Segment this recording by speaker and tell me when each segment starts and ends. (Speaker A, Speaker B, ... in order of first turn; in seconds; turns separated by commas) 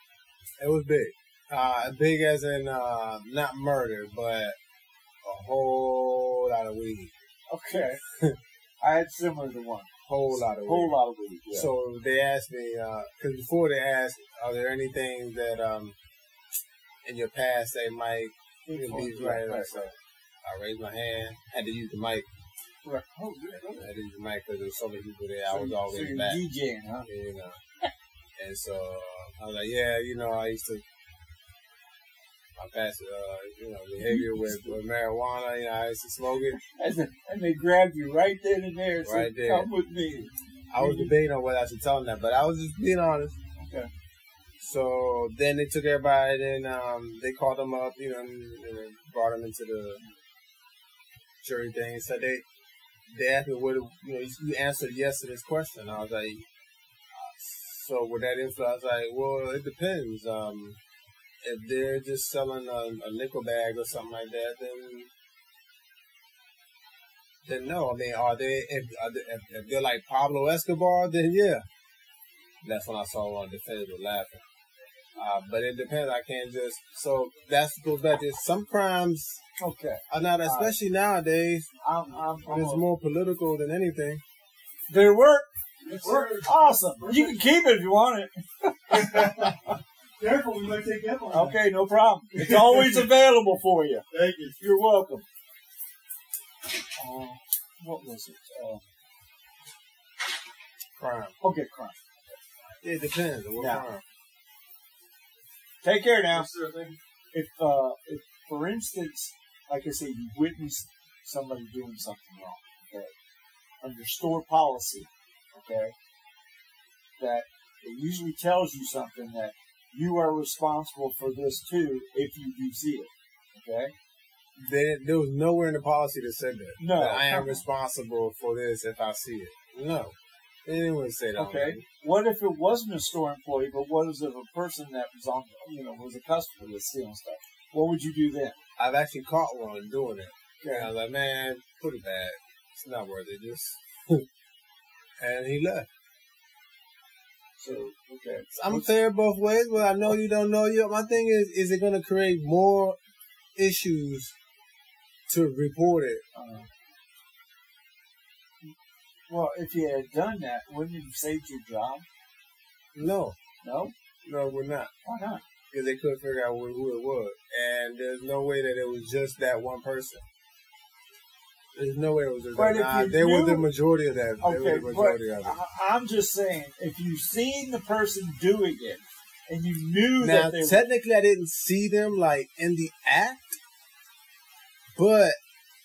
Speaker A: 0.6-4.5, Speaker A: 5.2-7.1, Speaker B: 7.5-8.0, Speaker B: 8.8-11.7, Speaker A: 10.1-11.0, Speaker A: 11.5-15.9, Speaker A: 17.0-22.2, Speaker B: 18.6-19.9, Speaker B: 22.8-23.9, Speaker A: 23.8-26.4, Speaker B: 25.5-27.1, Speaker A: 27.0-27.6, Speaker A: 28.4-30.8, Speaker A: 32.6-36.6, Speaker B: 34.0-34.8, Speaker B: 36.6-41.1, Speaker A: 39.0-39.7, Speaker A: 40.7-43.4, Speaker B: 43.6-43.9, Speaker A: 44.6-50.0, Speaker A: 51.4-52.4, Speaker A: 53.1-56.5, Speaker A: 57.1-60.8, Speaker A: 61.4-65.1, Speaker A: 67.4-71.6, Speaker A: 72.6-74.4, Speaker A: 75.2-79.4, Speaker B: 79.6-80.8, Speaker A: 80.1-81.7, Speaker B: 81.8-82.8, Speaker A: 82.4-84.2, Speaker B: 84.9-89.8, Speaker C: 85.9-87.4, Speaker C: 88.9-89.6, Speaker C: 90.2-91.7, Speaker B: 91.3-94.1, Speaker C: 92.3-93.1, Speaker C: 94.1-94.6, Speaker B: 94.6-95.2, Speaker B: 97.0-98.8, Speaker A: 101.0-101.4, Speaker B: 101.4-102.8, Speaker A: 102.8-104.0, Speaker B: 103.6-103.9, Speaker B: 105.8-106.5, Speaker C: 106.3-107.0, Speaker B: 107.3-113.1, Speaker B: 113.8-115.9, Speaker B: 117.2-123.9, Speaker A: 124.6-131.8, Speaker B: 126.8-127.7, Speaker B: 131.4-138.6, Speaker A: 138.8-144.2, Speaker B: 140.6-140.9, Speaker A: 145.2-145.9, Speaker B: 147.6-148.9, Speaker A: 148.5-153.0, Speaker A: 153.6-154.3, Speaker A: 155.3-156.2, Speaker B: 156.3-156.7, Speaker B: 159.3-162.1, Speaker A: 162.9-163.3, Speaker B: 163.6-163.9, Speaker A: 164.2-164.9, Speaker B: 165.0-165.4, Speaker A: 165.7-170.2, Speaker A: 171.7-175.6, Speaker B: 172.5-173.7, Speaker B: 174.4-180.8, Speaker A: 180.2-183.5, Speaker A: 184.9-185.4